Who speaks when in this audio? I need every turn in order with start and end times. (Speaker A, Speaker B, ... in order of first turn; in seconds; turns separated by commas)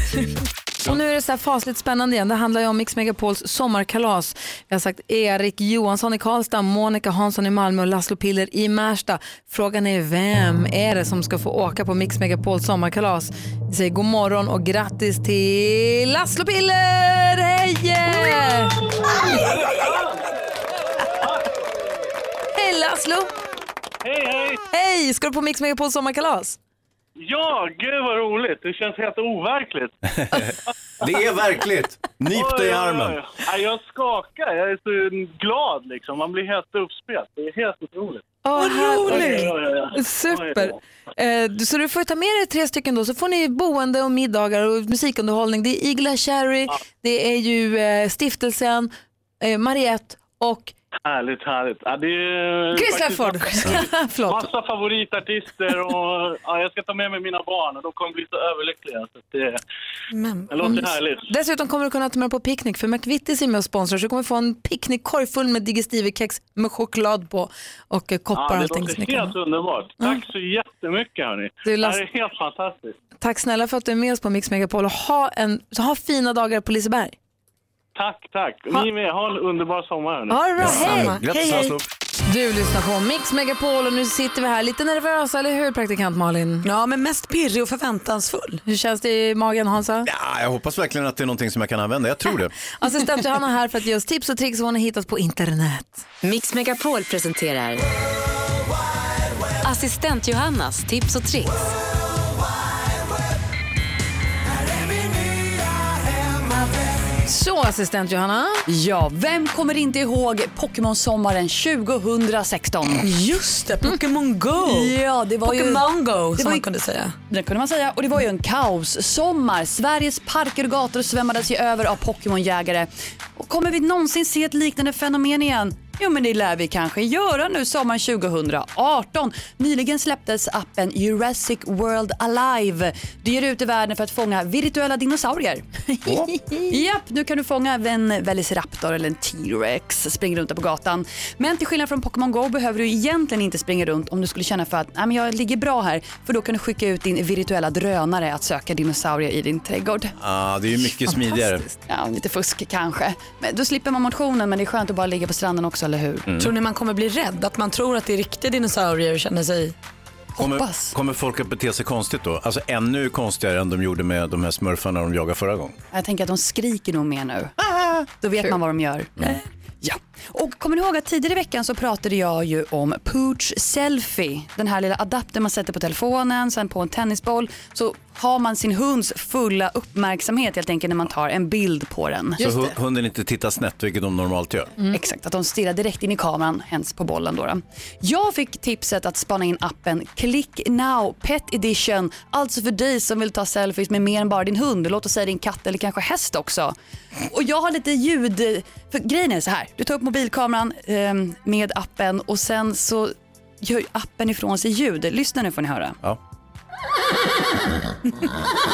Speaker A: 0.8-19.5, Speaker B: 19.2-20.1, Speaker A: 22.6-23.3, Speaker B: 24.0-24.6, Speaker A: 24.7-26.6, Speaker B: 27.2-29.9, Speaker C: 31.0-33.2, Speaker B: 32.3-38.2, Speaker A: 38.4-50.7, Speaker D: 38.6-39.5, Speaker B: 39.0-40.8, Speaker B: 51.1-59.6, Speaker A: 52.7-54.5, Speaker D: 60.1-60.8, Speaker B: 60.5-61.3, Speaker A: 60.6-69.4, Speaker B: 68.3-73.0, Speaker A: 71.7-72.0, Speaker A: 73.2-77.2, Speaker B: 78.0-80.4, Speaker A: 80.3-86.7, Speaker C: 80.6-81.8, Speaker D: 80.6-81.2, Speaker D: 86.6-88.6, Speaker A: 88.7-90.1, Speaker C: 90.0-92.5, Speaker A: 92.8-96.0, Speaker E: 96.2-97.8, Speaker E: 99.6-101.7, Speaker A: 107.2-108.6, Speaker F: 108.7-113.0, Speaker D: 113.0-117.2, Speaker F: 114.6-116.7, Speaker F: 117.3-135.7, Speaker A: 136.1-136.7, Speaker F: 136.7-150.1, Speaker C: 150.2-151.7, Speaker A: 151.1-151.8, Speaker F: 151.9-156.3, Speaker D: 156.4-159.7, Speaker F: 160.4-160.9, Speaker C: 160.4-165.8, Speaker F: 165.9-167.5, Speaker F: 168.1-169.1, Speaker F: 169.8-182.6, Speaker C: 182.4-184.7, Speaker F: 184.9-196.8, Speaker F: 197.3-206.0